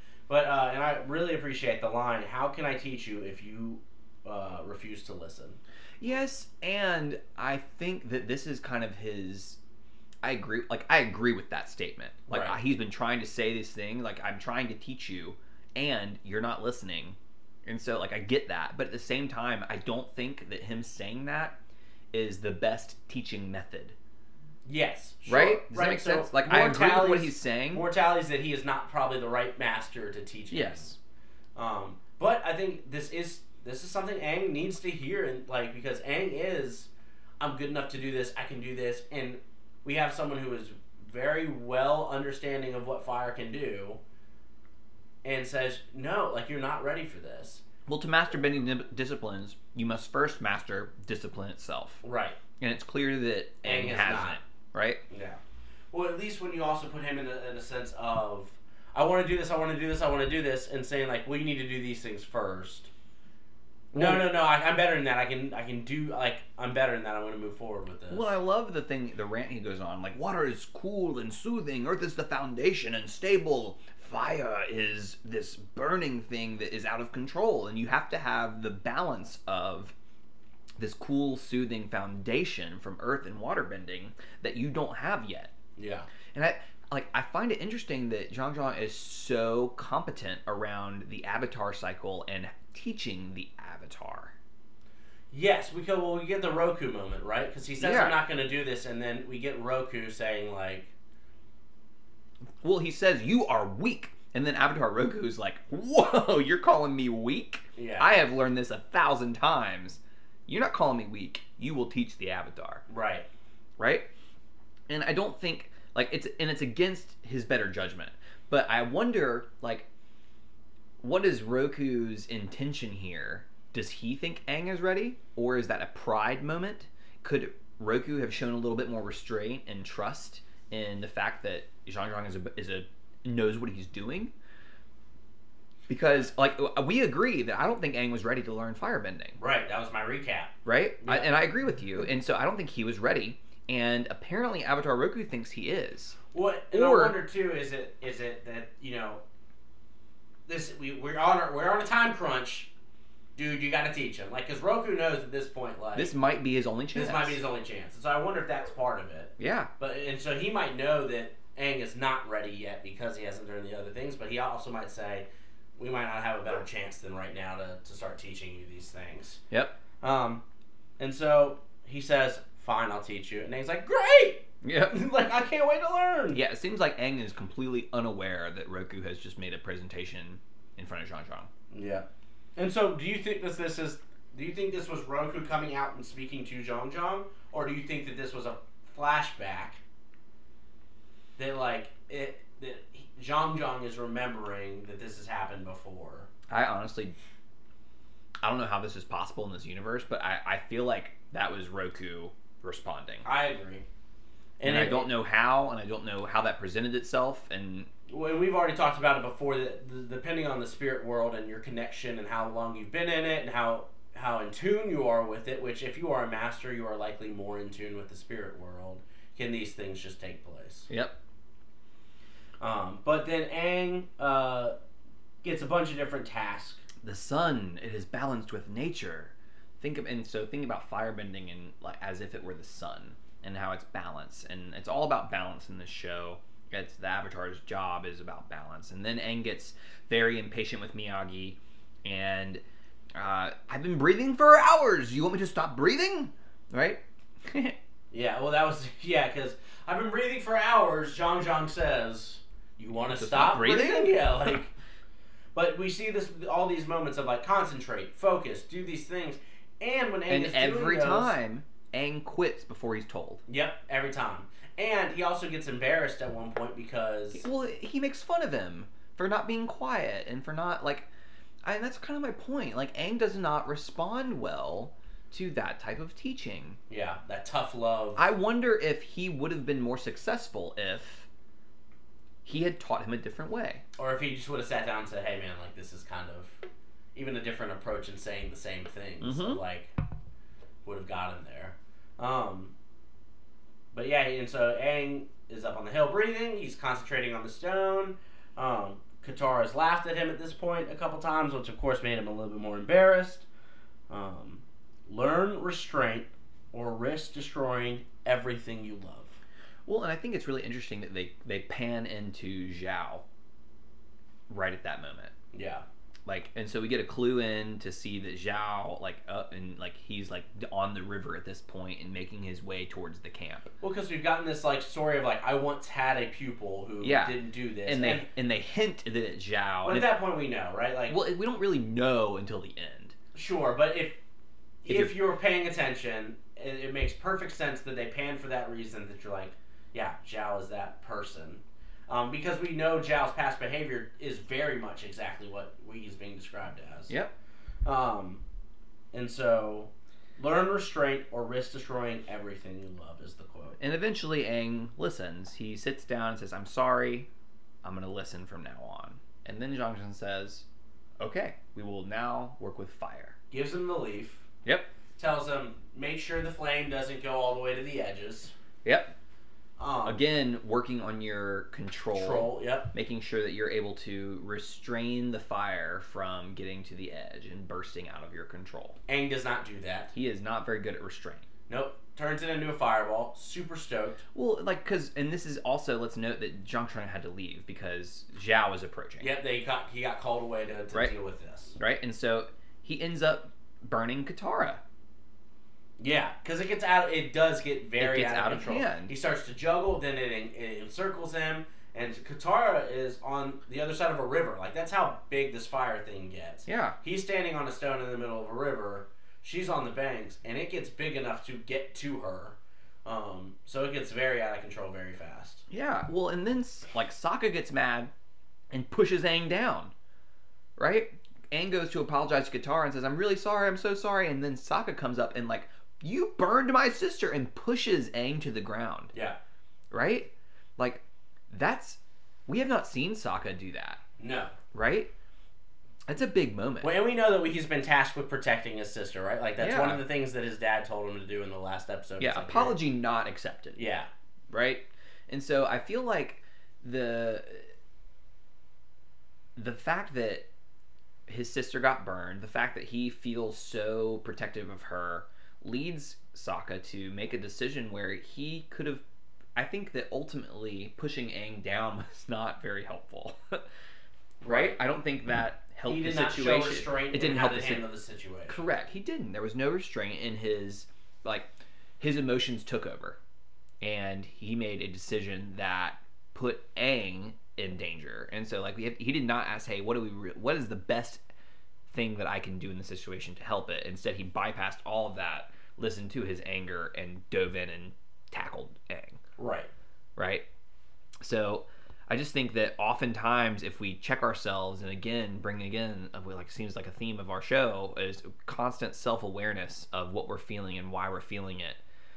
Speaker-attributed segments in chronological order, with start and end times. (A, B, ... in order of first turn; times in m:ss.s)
0:00.3-0:05.6 A
0:06.0-0:09.6 B
0:10.2-0:21.6 B
0:12.3-0:12.6 A
0:22.1-0:24.0 B
0:24.6-0:30.9 A
0:25.3-0:27.8 B
0:30.5-0:31.0 B
0:31.6-0:44.0 A
0:45.2-0:47.6 A
0:47.8-0:52.0 B
0:52.0-0:52.4 A
0:52.6-0:55.0 B
0:53.6-0:54.4 A
0:55.1-0:55.4 A
0:55.9-1:02.9 A
1:03.9-1:04.3 B
1:03.9-1:08.3 A
1:08.1-1:19.9 B
1:20.8-1:25.5 B
1:25.8-1:26.1 A
1:26.3-1:34.3 B
1:35.3-1:40.9 A
1:37.8-1:38.2 B
1:42.6-1:52.8 B
1:47.8-1:48.1 A
1:52.9-1:53.3 A
1:53.8-1:54.1 B
1:54.9-1:59.9 B
2:01.0-2:14.3 B
2:15.9-2:19.4 B
2:19.4-2:21.3 A
2:20.6-2:26.2 B
2:26.3-2:29.2 A
2:26.7-2:27.2 B
2:30.5-2:32.7 A
2:33.4-2:36.1 A
2:35.9-2:37.4 B
2:36.9-2:45.2 A
2:39.4-2:39.7 B
2:45.8-2:49.4 A
2:50.0-2:50.4 A
2:51.0-2:56.4 A
2:54.6-2:55.0 B
2:56.3-3:01.5 B
3:01.7-3:09.8 A
3:11.4-3:16.3 A
3:16.5-3:17.2 B
3:18.4-3:23.2 B
3:23.2-3:23.8 A
3:24.6-3:25.1 A
3:24.6-3:27.9 B
3:28.1-3:40.9 A
3:40.9-3:41.2 B
3:42.6-3:44.7 A
3:45.4-3:46.8 A
3:47.0-4:02.6 B
4:03.1-4:07.8 B
4:08.1-4:14.7 A
4:13.1-4:14.6 B
4:15.5-4:21.3 A
4:20.3-4:23.4 B
4:23.5-4:27.5 A
4:27.3-4:31.1 B
4:31.6-4:36.8 B
4:36.9-4:38.2 A
4:38.2-4:41.3 B
4:42.4-4:43.8 B
4:44.0-4:46.6 A
4:47.1-4:49.9 A
4:49.2-4:49.6 B
4:50.8-4:52.7 A
4:53.9-5:03.4 A
5:04.1-5:09.4 A
5:09.8-5:13.2 B
5:14.5-5:15.3 B
5:15.5-5:15.8 A
5:16.2-5:23.7 B
5:23.8-5:28.2 A
5:27.0-5:30.1 B
5:29.8-5:31.2 A
5:31.1-5:33.1 B
5:33.3-5:34.2 A
5:34.8-5:47.1 A
5:34.8-5:35.1 B
5:47.8-5:48.4 A
5:49.1-5:53.8 A
5:53.8-5:57.3 B
5:57.8-6:00.6 B
6:01.2-6:03.4 B
6:03.5-6:04.4 A
6:04.6-6:04.9 B
6:05.2-6:08.5 A
6:08.8-6:09.1 B
6:09.8-6:10.2 A
6:10.0-6:19.0 B
6:12.1-6:12.9 A
6:19.1-6:20.1 A
6:20.1-6:21.5 B
6:21.7-6:24.2 A
6:24.3-6:29.3 B
6:29.2-6:31.8 A
6:31.8-6:34.8 B
6:36.0-6:55.6 A
6:38.0-6:39.1 B
6:46.7-6:47.0 B
6:55.7-6:58.1 B
6:58.7-6:59.9 B
7:00.8-7:09.1 B
7:09.1-7:09.4 A
7:09.9-7:14.0 B
7:14.2-7:14.5 A
7:14.7-7:15.1 B
7:16.1-7:16.9 B
7:16.8-7:22.8 A
7:19.6-7:20.0 B
7:22.2-7:23.8 B
7:23.8-7:24.1 A
7:24.5-7:27.7 B
7:29.6-7:30.5 B
7:31.3-7:39.0 B
7:39.6-7:43.6 B
7:44.4-7:44.8 A
7:44.4-7:47.8 B
7:45.8-7:48.6 A
7:48.5-7:51.5 B
7:52.0-7:53.2 B
7:53.8-8:01.2 B
8:01.9-8:09.2 B
8:09.4-8:09.7 A
8:10.2-8:10.4 B
8:11.2-8:21.8 B